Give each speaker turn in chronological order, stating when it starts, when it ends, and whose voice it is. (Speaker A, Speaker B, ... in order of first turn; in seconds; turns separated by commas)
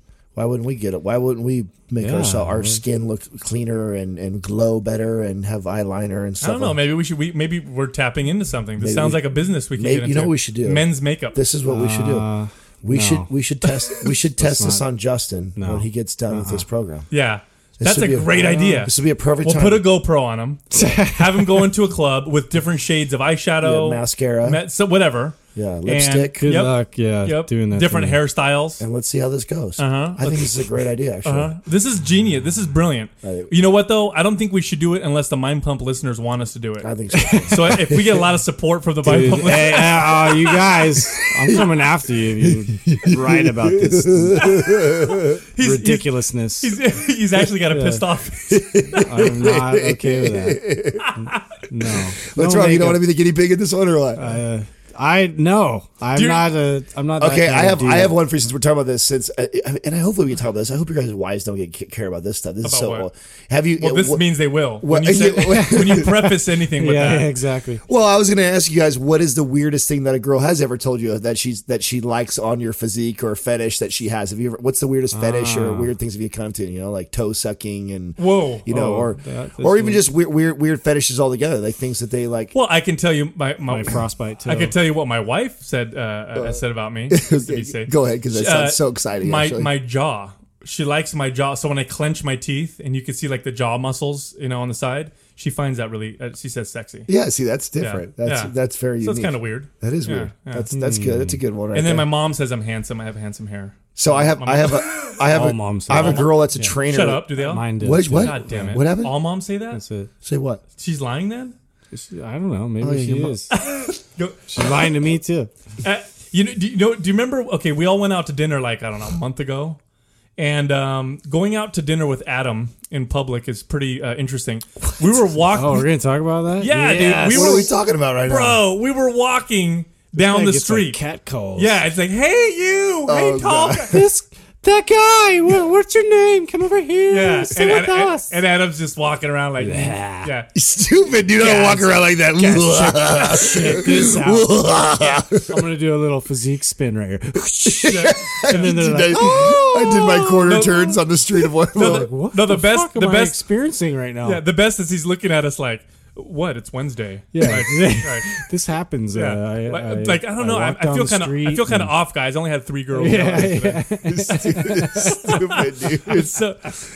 Speaker A: 0.3-6.8, Speaker B: 2.0-2.8, Speaker C: 6.4-11.4, Speaker A: 8.8-12.3, Speaker B: 11.7-13.3, Speaker A: 12.8-17.1, Speaker B: 14.3-14.9, Speaker B: 15.6-16.7, Speaker C: 17.1-28.8, Speaker A: 17.8-19.9, Speaker B: 20.7-21.7, Speaker A: 23.6-24.6, Speaker A: 25.6-26.4, Speaker B: 26.4-28.2, Speaker A: 28.8-31.6, Speaker C: 29.8-30.7, Speaker C: 31.2-40.2, Speaker A: 33.2-33.5, Speaker A: 36.8-38.2, Speaker B: 37.1-37.8, Speaker B: 39.0-44.5, Speaker A: 39.2-41.7, Speaker A: 42.4-45.4, Speaker C: 44.4-49.4, Speaker B: 45.6-46.8, Speaker B: 47.7-48.1, Speaker A: 48.5-51.2, Speaker B: 49.0-53.1, Speaker C: 51.0-51.4, Speaker A: 52.3-54.4, Speaker B: 54.2-58.2, Speaker C: 56.1-56.5, Speaker A: 57.2-66.2, Speaker C: 62.6-63.1, Speaker C: 63.8-67.3, Speaker B: 65.6-67.8, Speaker A: 67.9-82.5, Speaker B: 75.1-75.9, Speaker C: 78.2-78.7, Speaker B: 78.7-80.1, Speaker C: 82.5-97.1, Speaker B: 83.7-84.8, Speaker A: 86.3-89.7, Speaker A: 97.1-102.1, Speaker C: 97.8-100.7, Speaker B: 100.7-101.4, Speaker C: 101.7-105.1, Speaker A: 104.0-109.2, Speaker B: 105.3-106.8, Speaker C: 105.9-109.8, Speaker B: 107.3-108.8, Speaker B: 109.7-110.1, Speaker A: 110.2-110.6, Speaker C: 110.8-111.5, Speaker B: 111.9-113.5, Speaker A: 112.8-113.4, Speaker C: 113.5-114.9, Speaker B: 114.5-115.5, Speaker C: 115.8-119.8, Speaker C: 120.4-125.9, Speaker B: 125.5-127.7, Speaker C: 126.6-127.7, Speaker A: 127.3-128.6, Speaker C: 128.2-131.0, Speaker B: 130.1-131.8, Speaker C: 131.6-134.0, Speaker A: 133.1-134.0, Speaker B: 133.9-138.4, Speaker C: 137.1-140.5, Speaker B: 139.6-140.3, Speaker A: 140.6-145.7, Speaker B: 141.4-144.6, Speaker C: 143.2-143.7, Speaker B: 145.4-150.9, Speaker A: 147.6-152.1, Speaker C: 147.8-148.8, Speaker C: 150.4-150.9, Speaker B: 151.5-154.4, Speaker C: 151.8-153.4, Speaker C: 154.2-158.5, Speaker B: 157.3-161.9, Speaker A: 157.4-157.7, Speaker C: 159.1-163.9, Speaker B: 162.9-165.3, Speaker A: 164.1-166.4, Speaker C: 165.0-166.8